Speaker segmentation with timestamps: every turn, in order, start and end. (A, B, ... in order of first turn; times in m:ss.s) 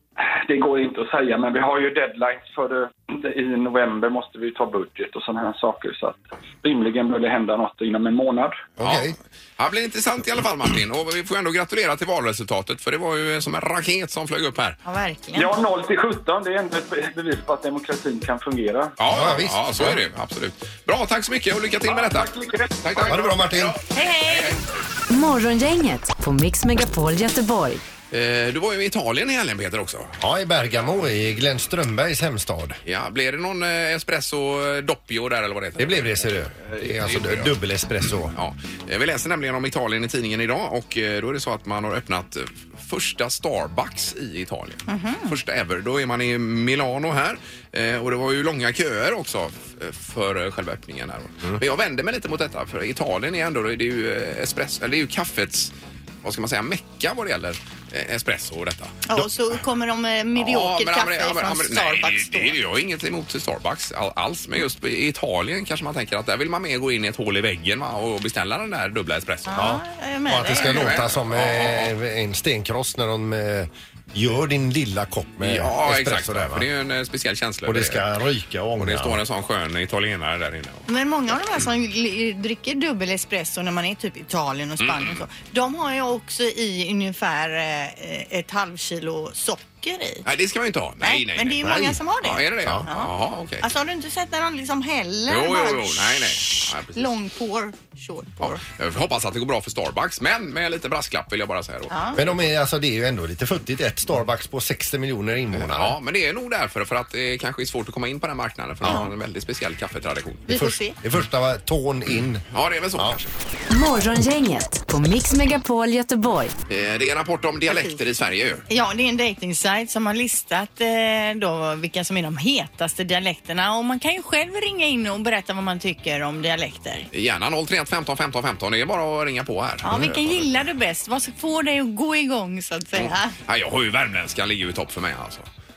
0:00.2-0:08.6 A
0:08.8-0:14.8 B
0:08.8-0:09.2 C
0:14.8-0:15.5 D
0:15.3-0:19.0 A
0:19.0-0:24.6 B
0:19.0-0:20.0 C
0:21.8-0:23.2 A
0:23.0-0:23.8 C
0:23.9-0:24.6 D
0:25.1-0:27.8 E
0:28.1-0:30.1 B
0:30.2-0:32.8 C
0:32.8-0:37.5 B
0:35.8-0:38.3 C
0:38.3-0:55.7 B
0:44.9-0:45.3 D
0:56.2-0:59.0 B
0:59.0-1:02.6 D
1:00.4-1:09.7 B
1:09.5-1:10.9 D
1:09.6-1:16.6 C
1:10.6-1:11.9 B
1:15.4-1:18.1 B
1:17.6-1:19.2 C
1:18.8-1:20.8 B
1:20.9-1:30.2 D
1:24.8-1:25.2 B
1:30.2-1:33.6 B
1:31.0-1:38.6 D
1:31.7-1:31.9 C
1:35.3-1:37.2 B
1:38.4-1:42.4 B
1:41.9-1:42.2 D
1:42.2-1:46.0 C
1:45.5-1:50.4 B
1:50.5-1:51.0 D
1:50.5-1:52.4 C
1:52.5-1:53.3 B
1:53.7-1:56.5 E
1:56.7-1:58.6 B
1:57.7-1:58.0 D
1:58.7-2:07.1 D
2:07.1-2:10.6 B
2:09.8-2:13.3 D
2:12.9-2:15.5 B